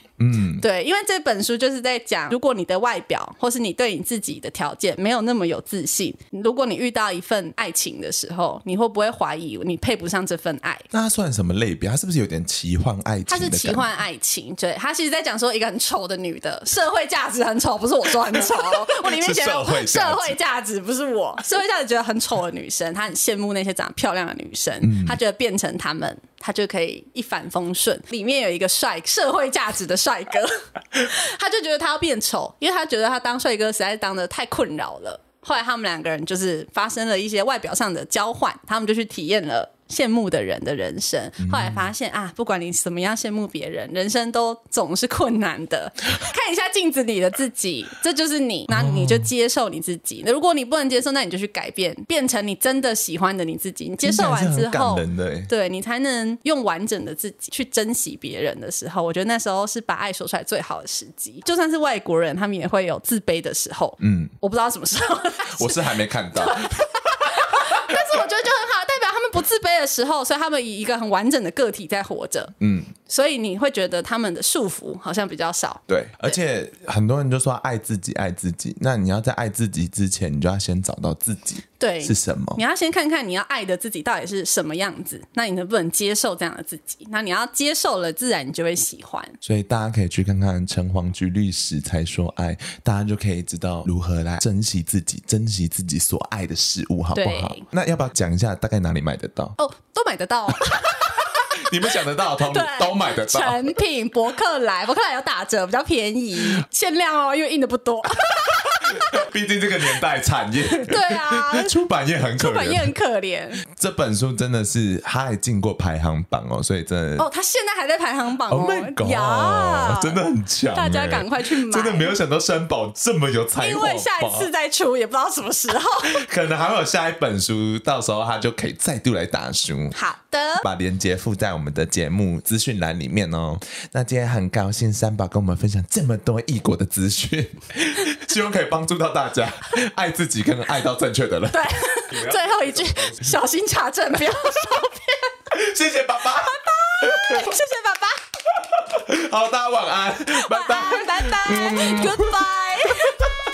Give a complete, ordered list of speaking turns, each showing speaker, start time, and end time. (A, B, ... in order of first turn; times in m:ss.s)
0:00.2-0:00.6 A
0:00.6-0:10.9 B
0:10.9-0:13.9 A
0:13.3-1:12.6 B
0:18.4-0:20.4 A
0:24.8-0:25.2 A
0:41.4-0:41.9 A
0:48.7-0:49.3 A
0:54.0-0:55.5 A
1:04.0-1:04.3 A
1:05.5-1:08.0 A
1:12.6-1:13.0 A
1:13.1-1:16.3 B
1:15.9-1:22.6 A
1:21.8-1:29.4 B
1:29.4-1:39.6 A
1:37.2-1:37.6 B
1:39.6-1:49.1 B
1:40.9-1:43.8 A
1:48.4-1:52.9 A
1:50.7-1:51.8 B
1:52.4-1:53.6 B
1:53.7-1:57.3 A
1:57.2-2:00.2 B
1:58.5-2:04.5 A
2:00.7-2:02.2 B
2:03.6-2:06.2 B
2:06.0-2:10.0 A
2:09.9-2:10.6 B
2:10.6-2:23.4 A
2:21.5-2:25.3 B
2:25.5-2:27.5 A
2:26.3-2:28.2 B
2:28.6-2:32.4 A
2:30.3-2:33.2 B